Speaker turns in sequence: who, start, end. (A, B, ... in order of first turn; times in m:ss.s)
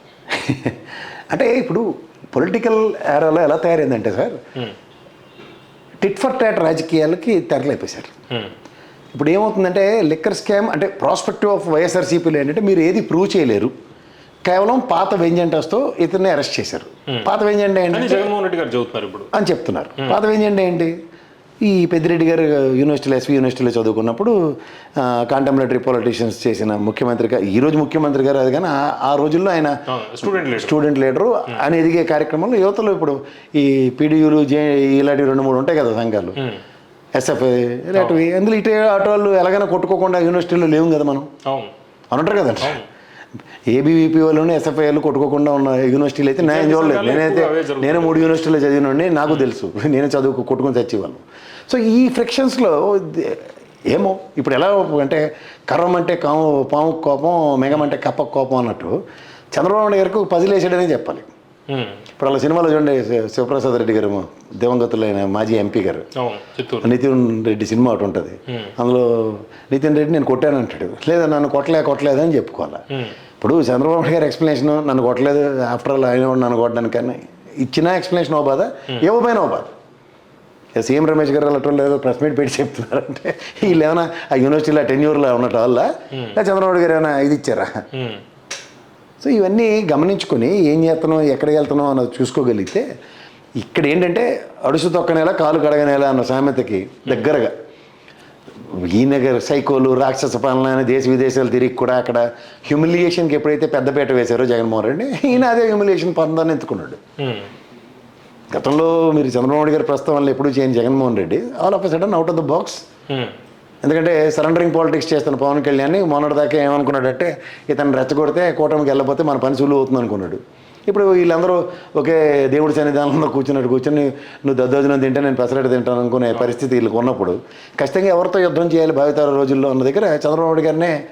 0:00.3-0:00.8 A
0:01.3-0:04.4 A
0:06.0-0:08.1 A
0:09.1-0:13.7 A
0:14.4-0:18.3 A
0:17.9-0:19.3 B
0:19.3-0:20.9 A
0:21.6-0:24.3 A
0:25.0-0:36.4 A
0:29.9-0:30.8 B
0:37.2-0:41.3 A
0:38.0-0:38.2 B
0:41.4-0:41.7 B
0:42.1-0:42.8 A
0:43.7-0:59.0 A
0:46.4-0:48.3 B
0:59.5-1:01.3 A
1:01.7-1:02.0 B
1:02.2-1:06.1 A
1:06.2-1:06.9 B
1:06.8-1:12.8 A
1:13.4-1:19.7 A
1:20.8-1:27.8 A
1:26.1-1:26.4 B
1:27.9-1:28.2 B
1:29.2-1:32.9 A
1:33.6-1:37.6 A
1:37.1-1:37.3 B
1:38.7-1:47.0 A
1:47.2-1:47.5 B
1:48.5-1:52.8 A
1:53.1-1:53.3 B
1:53.8-2:11.0 A